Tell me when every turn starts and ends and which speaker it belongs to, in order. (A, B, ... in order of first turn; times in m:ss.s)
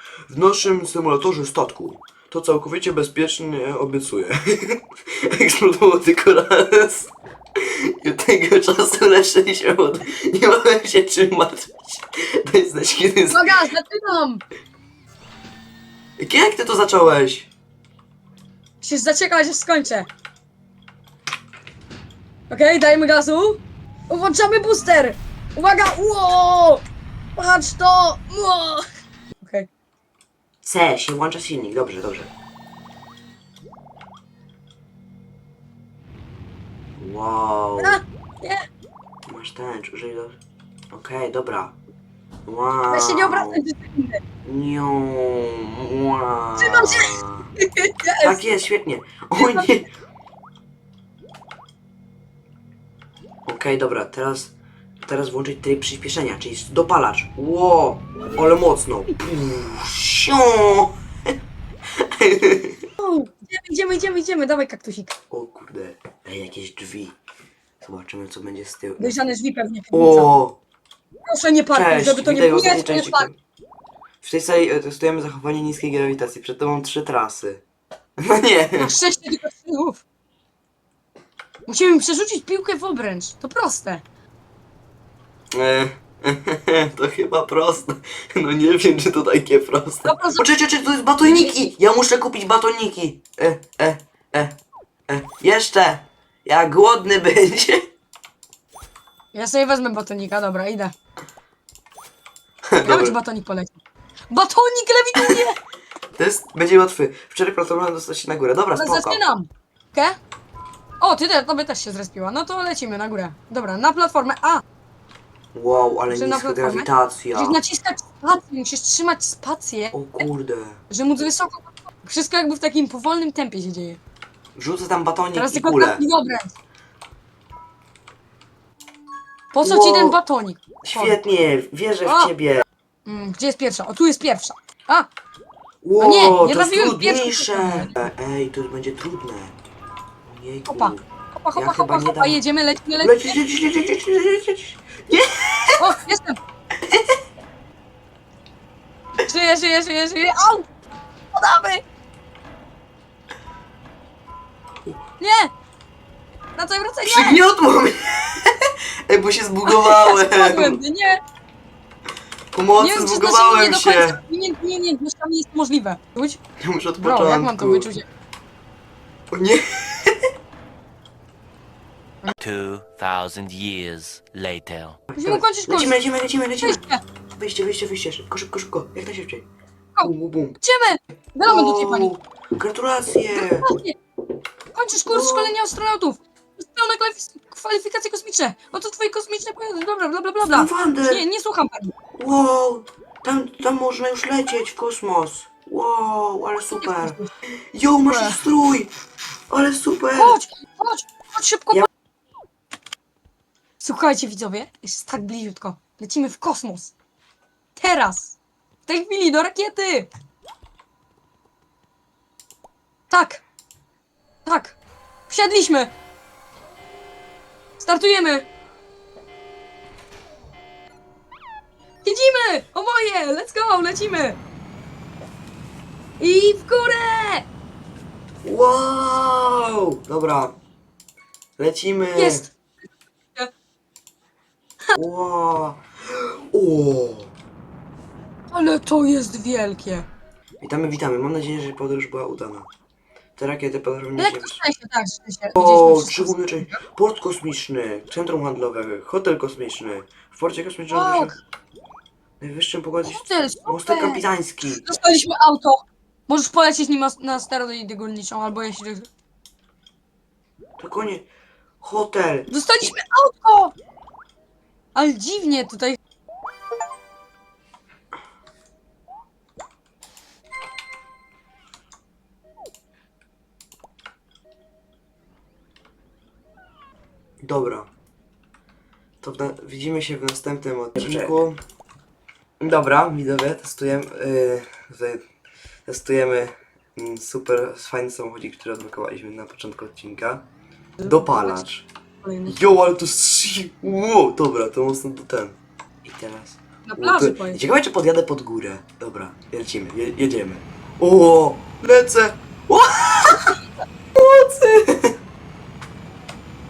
0:00.3-0:13.6 A
0:13.3-0:14.4 B
0:16.2-0:17.5 A
0:18.8-0:20.1 B
0:22.5-0:26.8 B
0:27.4-0:28.8 B
0:29.4-0:29.7 B
0:30.6-0:32.3 A
0:37.0-0:38.0 A
0:37.8-0:38.6 B
0:39.3-0:40.4 A
0:40.9-0:41.8 A
0:42.5-0:43.6 A
0:42.9-0:44.2 B
0:44.4-0:47.5 A
0:46.6-0:48.4 B
0:48.2-0:49.9 A
0:49.4-0:49.7 B
0:53.5-1:01.3 A
1:02.0-1:02.8 A
1:03.0-1:05.2 B
1:05.3-1:07.2 A
1:07.8-1:09.2 A
1:09.0-1:10.3 B
1:09.9-1:10.6 A
1:11.3-1:13.3 B
1:11.7-1:13.4 A
1:14.2-1:17.6 A
1:18.2-1:18.9 A
1:18.8-1:20.0 B
1:21.7-1:24.0 B
1:25.5-1:34.6 A
1:30.0-1:30.4 B
1:31.2-1:31.7 B
1:35.1-1:37.9 A
1:39.3-1:41.0 B
1:42.7-1:43.2 A
1:42.8-1:45.6 B
1:45.2-1:45.4 A
1:46.2-1:49.2 A
1:48.8-1:50.2 B
1:51.0-1:54.6 B
1:55.5-1:57.6 A
1:56.1-2:00.3 B
1:59.9-2:00.8 A
2:00.9-2:04.0 B
2:04.6-2:06.0 A
2:05.3-2:06.6 B
2:09.5-2:11.2 B
2:09.6-2:10.2 A
2:10.8-2:12.7 A
2:12.0-2:12.3 B
2:13.0-2:15.1 B
2:15.8-2:19.6 A
2:16.0-2:18.0 B
2:20.2-2:22.4 A
2:20.7-2:23.4 B
2:23.0-2:25.9 A
2:25.8-2:26.4 B
2:26.8-2:27.2 A
2:29.2-2:30.7 B
2:31.3-2:31.8 B
2:35.2-2:35.5 B
2:36.6-2:37.4 B
2:37.0-2:40.8 A
2:39.7-2:41.2 B
2:42.5-2:44.2 A
2:42.8-2:46.4 B
2:46.6-2:47.9 A
2:47.0-2:48.1 B
2:49.3-2:50.2 A
2:52.4-2:55.0 C
2:55.1-2:56.8 A
2:55.2-2:56.0 B
2:56.6-2:57.0 B
2:57.4-2:59.5 A
3:00.0-3:02.1 B
3:00.0-3:00.6 A
3:01.4-3:03.7 A
3:03.3-3:04.0 B
3:04.7-3:11.9 B
3:05.0-3:05.6 A
3:10.5-3:11.2 A
3:12.2-3:17.2 A
3:16.8-3:17.3 B
3:17.7-3:18.9 A
3:18.1-3:18.4 B
3:19.5-3:20.4 A
3:20.2-3:21.9 B
3:23.8-3:26.9 B
3:27.8-3:30.1 B
3:33.1-3:33.4 B
3:34.4-3:34.8 B
3:35.3-3:35.9 B
3:37.8-3:38.5 B
3:42.0-3:44.4 B
3:46.2-3:47.5 B
3:48.4-3:50.6 A
3:51.6-3:52.5 A
3:52.2-3:52.6 B
3:54.9-3:57.3 A
3:58.5-4:00.1 B
4:00.6-4:02.7 A
4:03.4-4:04.6 A
4:04.2-4:06.8 B
4:05.6-4:11.3 A
4:10.9-4:11.4 B
4:12.4-4:14.9 A
4:13.0-4:19.1 B
4:20.8-4:21.3 A
4:21.8-4:22.9 A
4:22.5-4:23.7 B
4:25.0-4:26.0 B
4:37.4-4:37.9 A
4:39.2-4:41.6 A
4:42.6-4:45.2 A
4:45.9-4:50.5 A
4:51.0-4:51.6 B
4:51.0-4:51.9 A
4:52.2-4:52.6 B
4:52.5-5:03.6 A
4:56.9-4:57.6 B
5:04.2-5:05.2 A